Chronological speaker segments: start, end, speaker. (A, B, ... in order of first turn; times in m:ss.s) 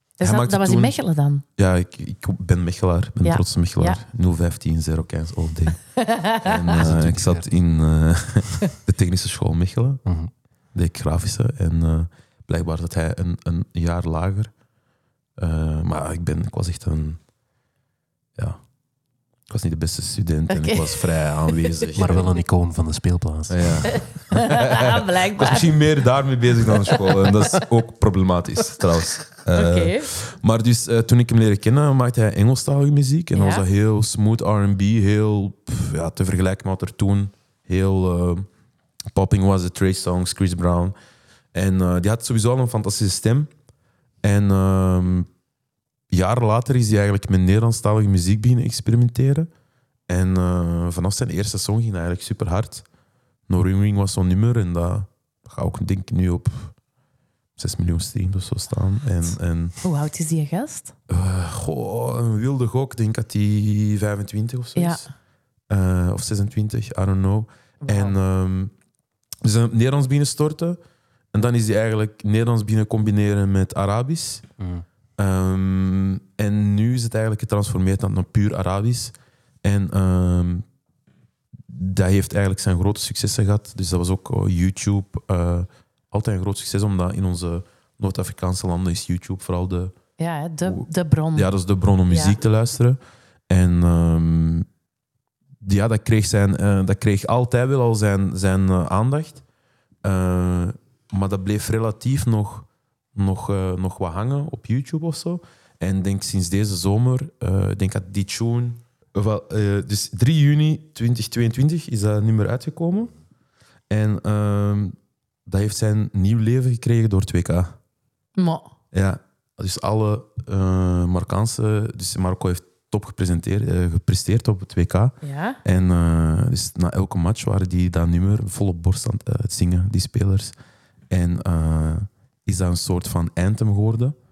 0:00.2-0:01.0 A
0:00.2-0:01.4 B
0:01.6-0:05.8 A
0:03.2-0:04.0 B
0:06.0-0:06.6 B
0:06.4-0:10.0 A
0:06.7-0:07.5 C
0:10.0-0:10.3 C
0:10.7-0:14.5 A
0:15.4-0:17.2 A
0:18.4-0:18.6 A
0:19.5-0:22.3 A
0:20.5-0:22.2 B
0:22.0-0:24.1 C
0:23.5-0:38.5 A
0:23.9-0:25.8 B
0:29.6-0:30.1 B
0:33.3-0:33.6 B
0:39.1-0:41.0 A
0:41.5-0:43.5 A
0:44.2-0:45.3 A
0:46.1-0:49.5 A
0:50.1-0:52.8 A
0:53.5-0:56.7 A
0:57.6-0:59.8 A
0:59.3-1:00.9 B
1:01.1-1:05.1 A
1:04.8-1:05.0 B
1:05.7-1:08.7 A
1:07.8-1:08.1 B
1:09.4-1:10.8 A
1:11.3-1:14.4 A
1:14.6-1:14.8 C
1:15.2-1:20.6 A
1:21.7-1:29.9 A
1:30.2-1:31.5 B
1:30.6-1:34.6 A
1:32.1-1:32.4 B
1:35.6-1:39.4 A
1:40.0-1:53.1 A
1:53.9-1:57.8 A
1:58.4-1:58.7 B
1:58.9-2:10.5 A
2:05.2-2:05.6 B
2:11.1-2:14.2 A